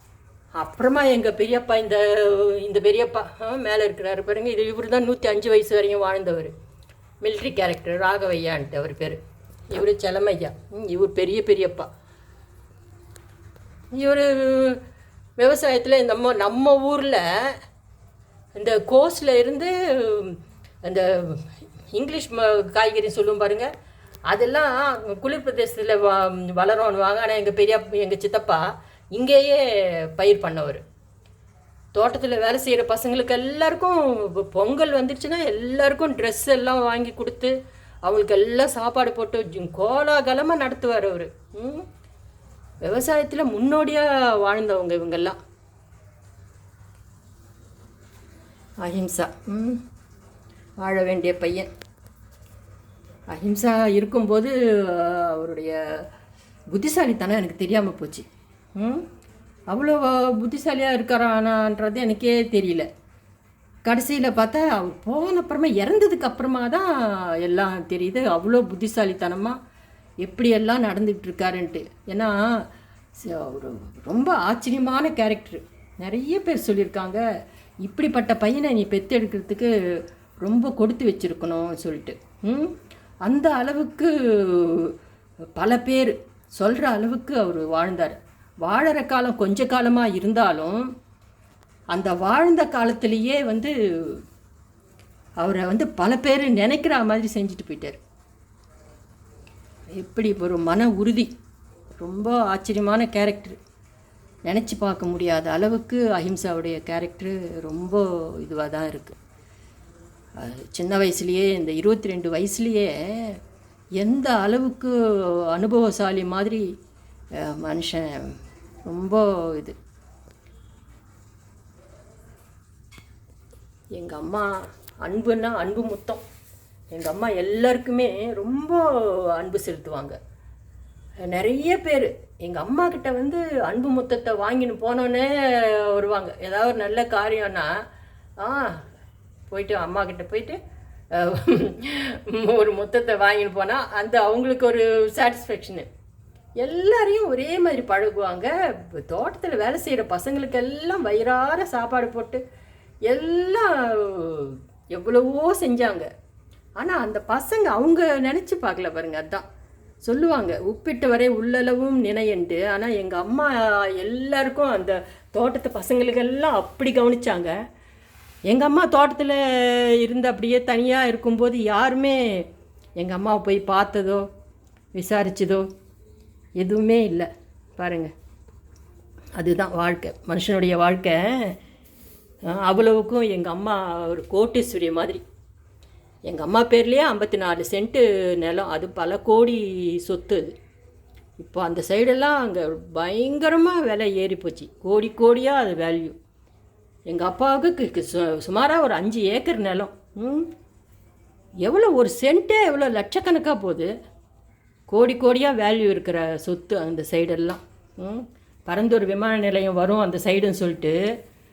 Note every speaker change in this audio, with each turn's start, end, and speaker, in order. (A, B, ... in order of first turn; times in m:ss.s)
0:00.6-0:06.5 A
0:07.2-0:09.2 A
0:09.7-0:11.9 A
0:13.9-0:14.8 A
0:15.4-0:17.6 A
0:18.6-0:23.7 A
0:24.3-0:30.8 A
0:32.0-0:37.5 A
0:38.0-0:41.9 A
0:42.8-0:45.4 A
0:48.8-0:49.8 A
0:50.8-0:51.7 A
0:53.3-0:55.8 A
0:56.7-0:59.1 A
0:59.7-1:02.9 A
1:03.9-1:09.6 A
1:10.2-1:12.6 A
1:13.2-1:17.2 A
1:17.8-1:19.7 A
1:20.4-1:25.0 A
1:25.6-1:30.9 A
1:31.9-1:34.2 A
1:35.4-1:38.0 A
1:40.0-1:41.3 A
1:42.0-1:43.6 A
1:44.5-1:49.2 A
1:50.4-1:53.4 A
1:54.0-1:56.6 A
1:57.4-1:58.4 A
1:58.9-1:59.8 A
2:04.0-2:06.2 A
2:06.9-2:10.2 A
2:11.2-2:17.7 A
2:18.4-2:18.8 A
2:19.5-2:20.6 A
2:21.1-2:25.9 A
2:26.6-2:32.4 A
2:33.1-2:36.1 A
2:36.8-2:39.4 A
2:40.0-2:47.6 A
2:48.5-2:54.3 A
2:55.0-2:55.7 A
2:56.6-2:58.1 A
2:59.4-3:01.6 A
3:02.5-3:05.2 A
3:06.3-3:10.5 A
3:11.4-3:16.2 A
3:17.1-3:20.5 A
3:21.6-3:23.9 A
3:24.9-3:31.0 A